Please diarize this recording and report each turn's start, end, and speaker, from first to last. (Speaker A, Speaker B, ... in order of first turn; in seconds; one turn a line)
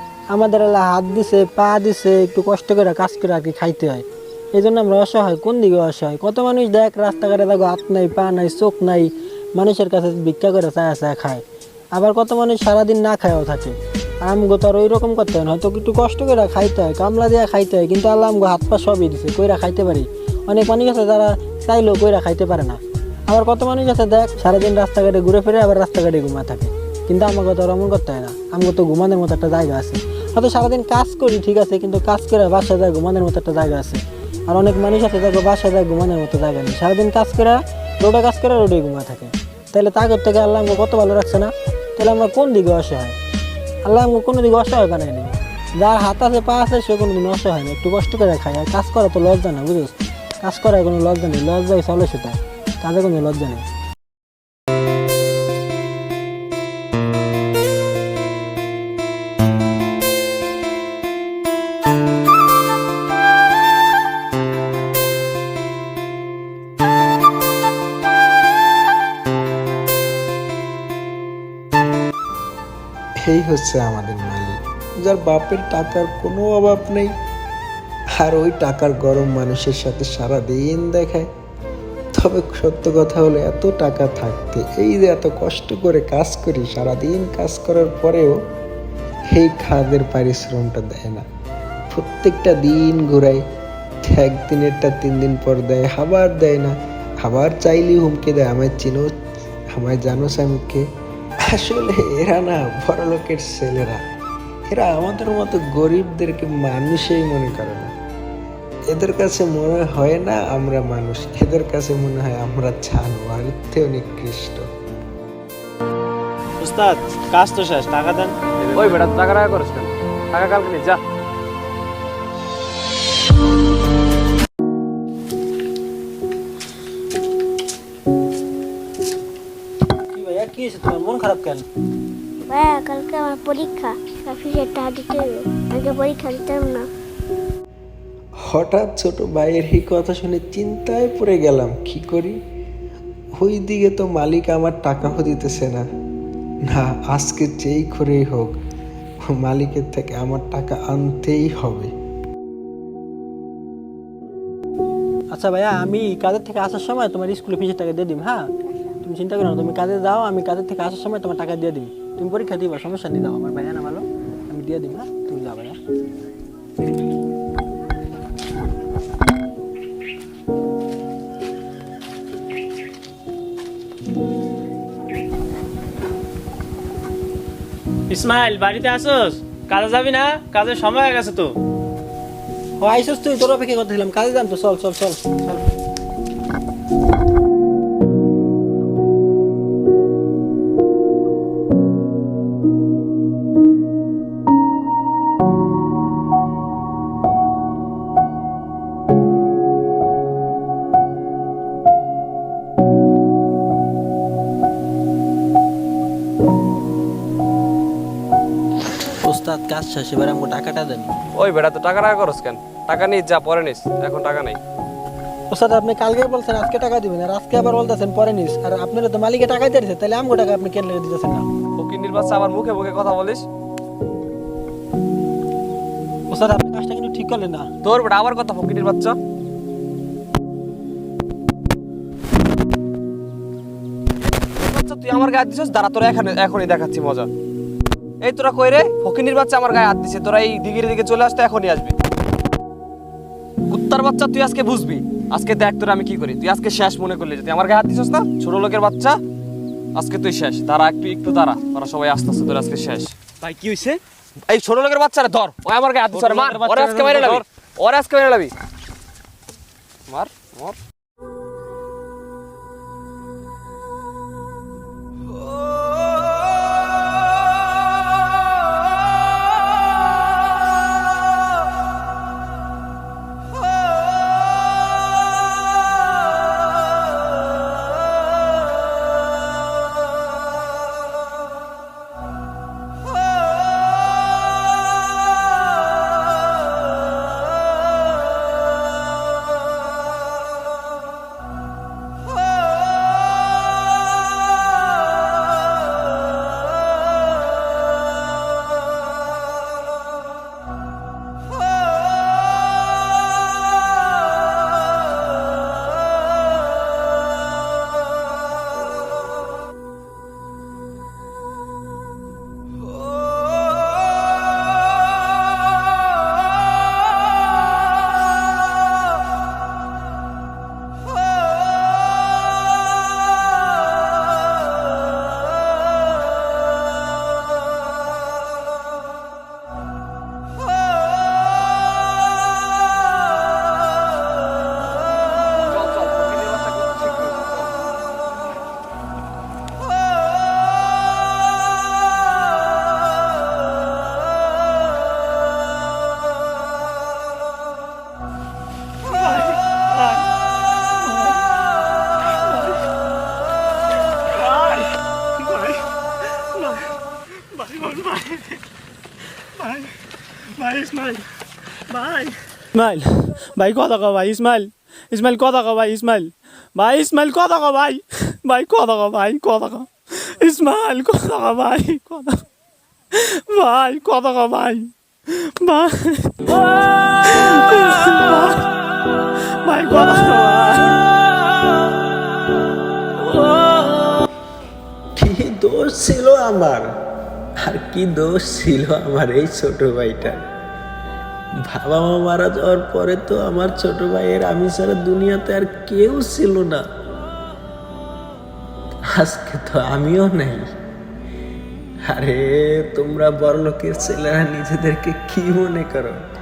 Speaker A: 0.3-43.2
Speaker A: 43.8-53.6
Speaker B: 73.2-77.1
Speaker B: 78.2-81.3
Speaker B: 82.1-88.4
Speaker B: 89.3-91.2
Speaker B: 91.9-93.4
Speaker B: 94.0-99.1
Speaker B: 99.7-100.9
Speaker B: 101.5-104.0
Speaker B: 104.7-107.9
Speaker B: 108.9-114.7
Speaker C: 116.6-118.3
Speaker D: 118.6-121.0
Speaker A: 130.1-131.7
Speaker E: 132.4-136.9
Speaker B: 138.4-142.4
Speaker B: 143.4-145.8
Speaker B: 146.7-148.5
Speaker B: 149.3-151.9
Speaker A: 155.3-158.4
Speaker A: 159.0-165.8
Speaker C: 178.1-181.6
Speaker A: 182.8-185.6
Speaker A: 209.2-211.1
Speaker D: 211.3-214.6
Speaker A: 215.5-221.5
Speaker D: 221.8-223.4
Speaker A: 226.3-227.7
Speaker D: 227.8-229.2
Speaker D: 234.4-237.3
Speaker D: 238.2-241.9
Speaker D: 243.7-249.2
Speaker D: 249.9-258.5
Speaker D: 260.1-260.8
Speaker D: 335.7-337.6
Speaker C: 349.1-350.3
Speaker C: 351.0-351.4
Speaker C: 352.4-352.8
Speaker C: 354.2-356.9
Speaker C: 357.4-358.6
Speaker C: 359.6-359.9
Speaker C: 360.5-361.3
Speaker C: 361.9-372.4
Speaker C: 373.1-378.7
Speaker C: 379.4-381.1
Speaker C: 383.3-383.6
Speaker B: 385.1-386.9
Speaker B: 387.6-390.4
Speaker B: 391.7-396.8
Speaker B: 399.1-400.7
Speaker B: 402.1-406.2